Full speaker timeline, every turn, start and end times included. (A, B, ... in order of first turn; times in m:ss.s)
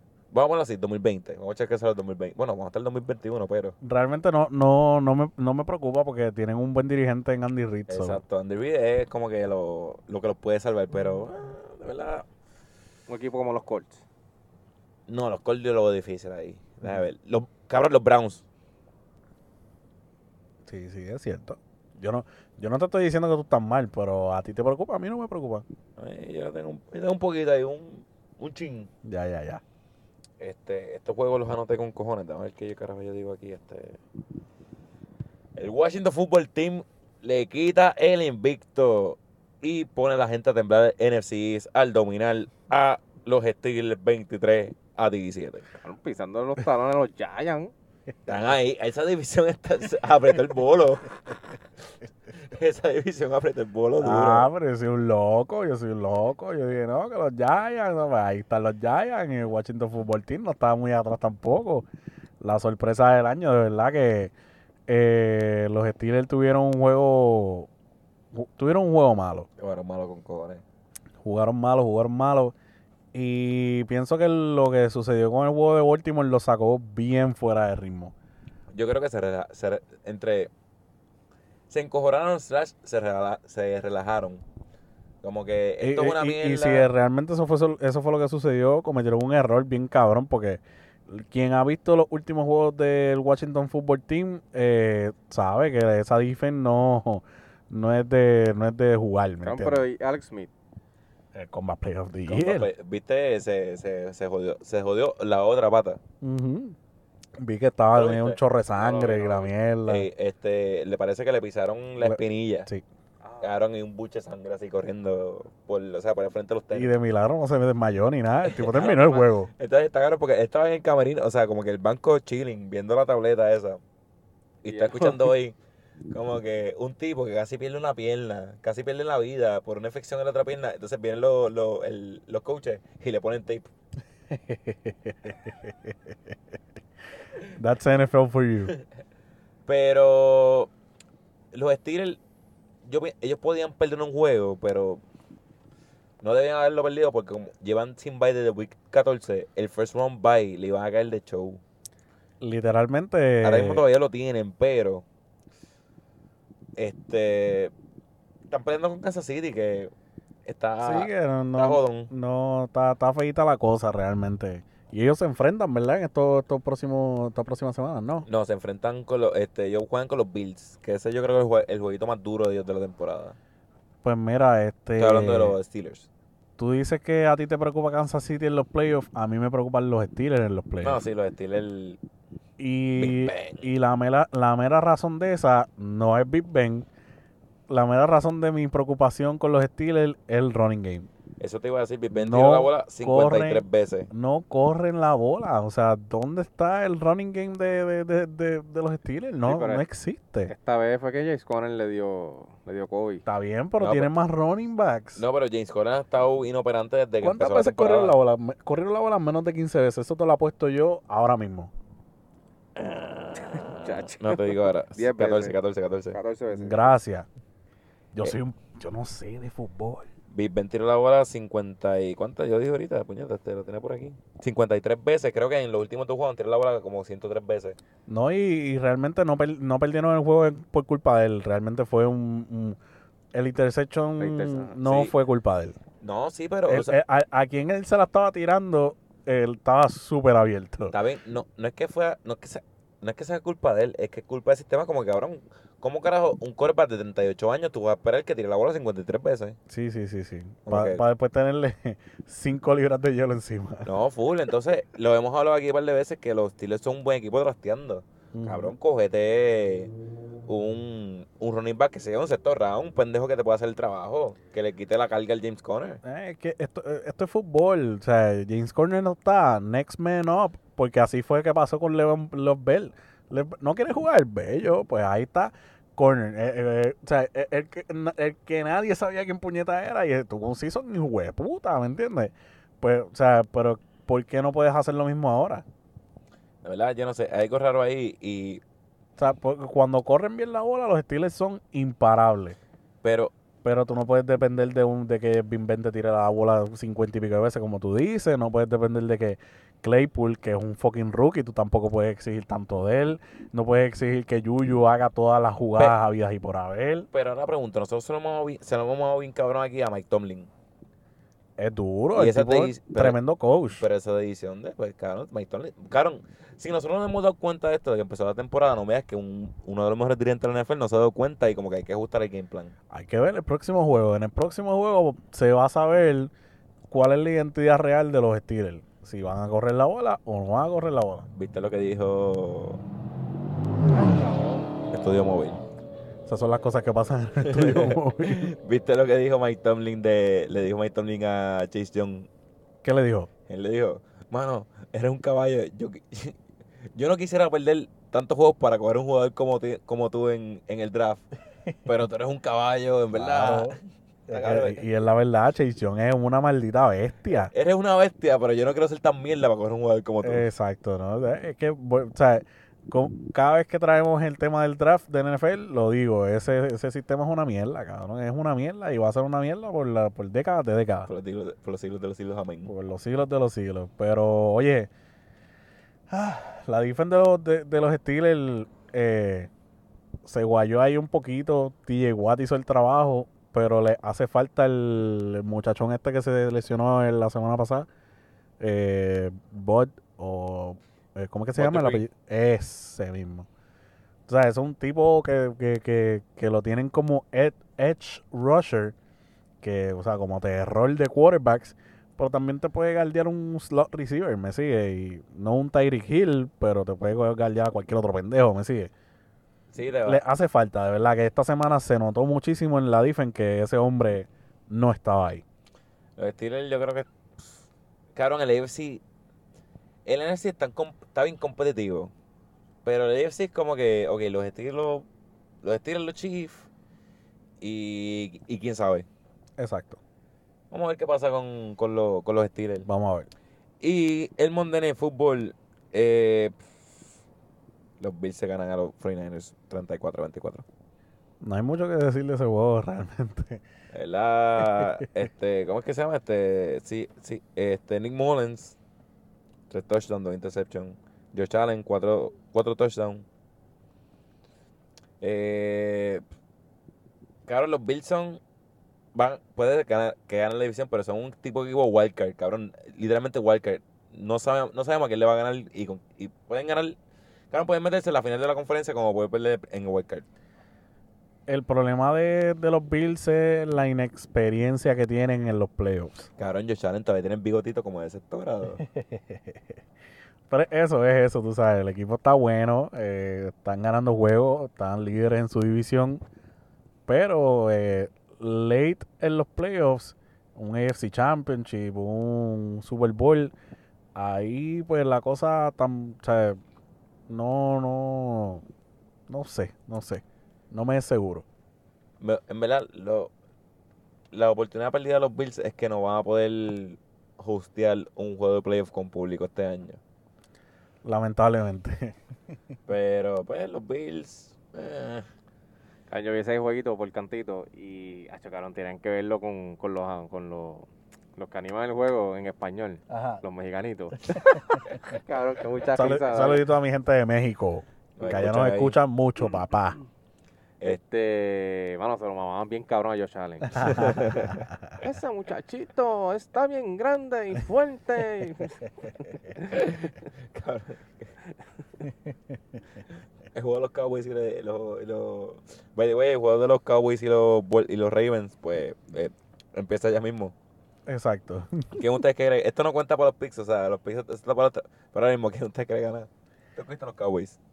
0:00.3-0:03.8 A
0:03.8-0:08.2 B
0:07.9-0:12.2 A
0:13.1-0:14.0 C
0:15.1-0:18.4 A
0:20.6-0:25.6 B
0:26.0-0:28.9 A
0:29.0-0:29.6 B
0:30.4-0:34.0 A
0:35.6-0:45.6 A
0:45.8-0:47.7 C
0:48.2-0:51.1 A
0:52.5-0:54.5 A
0:54.0-1:01.8 B
1:02.4-1:04.3 B
1:04.9-1:07.7 B
1:08.3-1:09.5 B
1:09.6-1:10.6 A
1:11.2-1:12.5 B
1:13.1-1:18.1 B
1:18.7-1:20.5 A
1:21.7-1:24.4 A
1:25.2-1:26.9 A
1:25.8-1:39.8 B
1:39.4-1:40.5 C
1:41.3-1:42.7 B
1:42.3-1:46.0 A
1:46.2-1:46.8 B
1:47.4-1:50.0 B
1:47.9-1:52.7 A
1:52.0-1:52.8 B
1:53.2-1:53.5 C
1:53.4-1:56.9 A
1:56.7-1:59.5 B
1:58.4-2:03.8 A
2:04.6-2:05.6 A
2:04.7-2:05.3 C
2:06.1-2:13.7 A
2:14.3-2:15.9 B
2:17.5-2:18.8 B
2:19.6-2:20.7 A
2:21.5-2:22.2 A
2:22.8-2:25.0 A
2:26.2-2:31.6 A
2:32.4-2:33.8 B
2:33.4-2:35.0 A
2:36.8-2:37.7 A
2:38.5-2:39.9 A
2:40.4-2:42.1 A
2:40.8-2:48.2 B
2:48.2-2:53.4 A
2:54.0-2:55.6 B
2:55.0-2:56.1 A
2:56.6-3:01.0 B
3:00.8-3:02.0 A
3:02.6-3:06.8 B
3:03.0-3:03.6 A
3:07.7-3:11.1 B
3:11.4-3:14.1 A
3:12.1-3:20.5 B
3:19.4-3:19.8 C
3:20.5-3:23.2 C
3:23.2-3:25.2 B
3:23.8-3:24.1 A
3:25.2-3:28.2 A
3:27.2-3:31.7 B
3:32.9-3:33.6 A
3:33.5-3:35.5 C
3:34.2-3:36.2 A
3:36.1-3:36.9 C
3:36.5-3:37.3 B
3:38.1-3:40.1 B
3:40.3-3:47.8 A
3:48.1-3:52.8 B
3:53.3-3:55.8 B
3:54.2-3:54.8 C
3:54.8-3:55.1 A
3:56.0-3:57.0 A
3:56.7-4:00.9 B
4:00.9-4:09.6 A
4:09.7-4:13.9 B
4:10.6-4:11.0 A
4:13.8-4:19.9 A
4:18.3-4:18.7 B
4:20.5-4:26.0 A
4:26.0-4:45.6 B
4:46.6-4:48.6 A
4:49.2-4:52.6 B
4:53.0-4:53.3 A
4:53.6-5:07.1 B
5:07.1-5:10.5 A
5:11.6-5:13.8 B
5:12.1-5:13.2 A
5:13.8-5:22.7 A
5:22.9-5:26.3 B
5:26.9-5:31.2 B
5:31.3-5:32.8 A
5:33.9-5:34.7 C
5:34.9-5:35.6 A
5:36.3-5:38.5 B
5:37.4-5:42.3 A
5:42.8-5:43.3 B
5:43.5-5:46.3 A
5:46.9-5:51.2 A
5:51.8-5:54.8 A
5:53.1-5:53.8 B
5:54.3-5:57.5 B
5:57.3-6:00.4 A
6:00.2-6:11.1 B
6:11.1-6:12.7 A
6:12.6-6:14.9 B
6:16.1-6:19.5 B
6:20.2-6:27.9 B
6:28.6-6:33.5 B
6:31.5-6:32.0 A
6:34.3-6:38.9 B
6:39.6-6:48.9 B
6:49.7-6:50.2 A
6:50.0-6:55.4 B
6:56.2-6:57.6 A
6:58.1-6:59.0 A
7:00.0-7:02.1 A
7:02.8-7:05.0 A
7:05.6-7:06.7 A
7:07.6-7:09.0 A
7:09.6-7:10.0 B
7:10.7-7:12.9 A
7:12.8-7:13.3 B
7:13.8-7:16.6 A
7:18.0-7:20.6 A
7:21.4-7:23.6 B
7:23.9-7:28.8 A
7:29.7-7:33.2 A
7:35.2-7:36.2 A
7:37.5-7:38.4 A
7:39.1-7:47.0 A
7:47.5-7:50.2 A
7:51.5-7:56.2 B
7:56.4-7:58.8 A
7:58.9-7:59.6 B
8:00.5-8:06.2 B
8:07.1-8:13.5 B
8:14.1-8:16.6 B
8:17.3-8:18.6 B
8:19.3-8:21.4 B
8:22.2-8:23.3 A
8:24.3-8:30.0 A
8:31.0-8:32.2 B
8:32.9-8:35.2 A
8:36.1-8:46.7 C
8:43.1-8:43.4 B
8:45.9-8:50.0 B
8:48.2-8:49.0 A
8:50.8-8:54.2 C
8:53.8-8:54.6 A
8:55.0-8:59.6 C
8:59.7-9:01.3 A
9:03.5-9:10.5 A
9:11.1-9:12.0 B
9:12.0-9:17.6 A